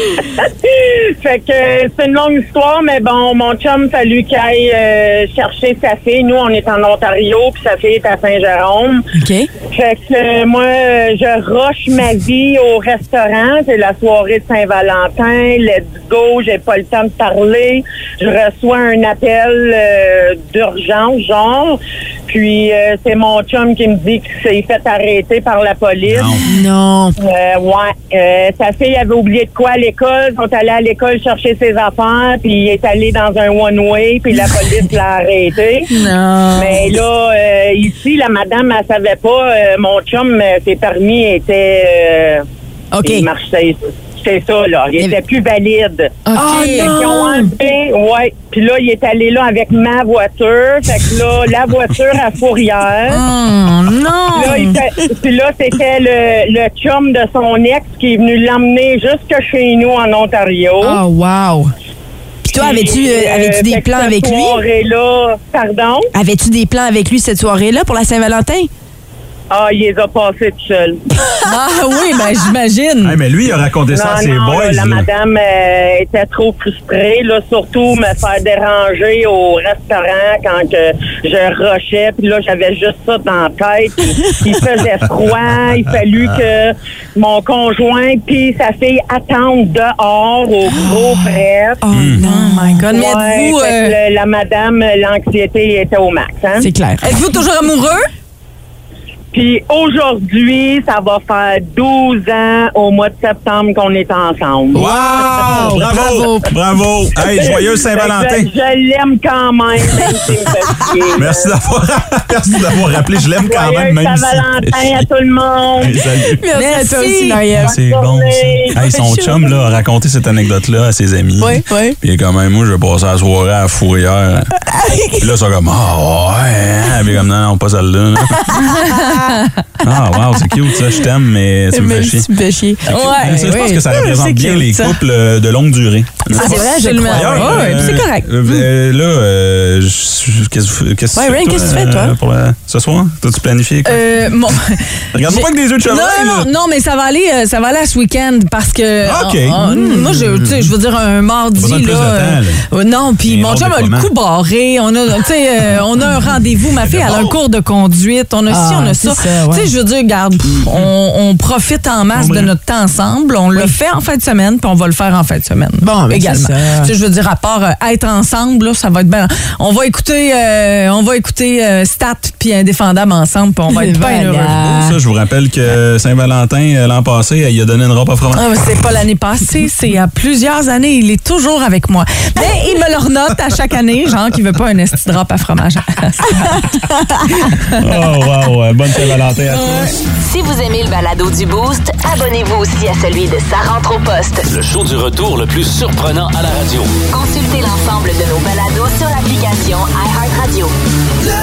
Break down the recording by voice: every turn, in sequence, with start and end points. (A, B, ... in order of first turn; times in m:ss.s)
0:00.2-0:09.0 A
0:09.2-0:09.5 B
0:09.7-0:26.3 A
0:26.1-0:26.4 C
0:26.4-0:27.1 B
0:27.2-0:35.9 A
0:35.9-0:36.8 D
0:36.6-0:42.4 A
0:42.9-0:43.2 B
0:43.0-0:53.2 A
0:46.2-0:47.0 D
0:46.3-0:47.5 B
0:53.1-0:54.8 D
0:54.3-1:01.0 A
1:00.8-1:01.7 B
1:02.4-1:04.6 B
1:02.5-1:06.1 A
1:06.1-1:08.7 B
1:09.5-1:11.0 A
1:11.4-1:13.2 D
1:13.0-1:15.1 C
1:13.9-1:31.8 A
1:31.8-1:32.8 B
1:31.9-1:32.2 C
1:32.2-1:33.9 D
1:32.9-1:36.7 A
1:36.6-1:37.0 B
1:37.0-1:38.0 D
1:39.3-1:44.8 A
1:44.7-1:46.5 B
1:44.7-1:48.5 C
1:47.2-1:51.5 A
1:51.2-1:55.0 C
1:53.4-1:55.9 A
1:55.8-1:56.4 C
1:56.3-1:57.8 B
1:56.5-1:57.4 D
1:57.5-2:04.5 C
1:57.7-1:58.8 A
1:58.8-1:59.4 B
2:01.4-2:02.0 B
2:04.7-2:05.2 B
2:05.2-2:08.5 C
2:08.6-2:09.5 D
2:09.8-2:12.3 C
2:11.7-2:13.8 B
2:12.9-2:15.0 D
2:12.9-2:24.3 C
2:16.3-2:18.6 B
2:16.3-2:18.3 D
2:21.1-2:22.1 B
2:23.8-2:54.5 D
2:25.1-2:26.5 C
2:29.0-2:29.6 C
2:29.6-2:30.3 B
2:31.5-2:32.6 C
2:33.2-2:34.1 C
2:36.8-2:37.3 C
2:38.5-2:39.7 B
2:40.4-2:40.9 C
2:42.1-2:42.5 C
2:45.8-2:46.9 B
2:53.7-2:55.0 B
2:54.6-2:58.4 C
2:58.4-3:07.8 D
3:07.8-3:09.9 C
3:09.5-3:09.9 D
3:10.2-3:14.4 E
3:14.5-3:16.9 F
3:17.1-3:20.7 E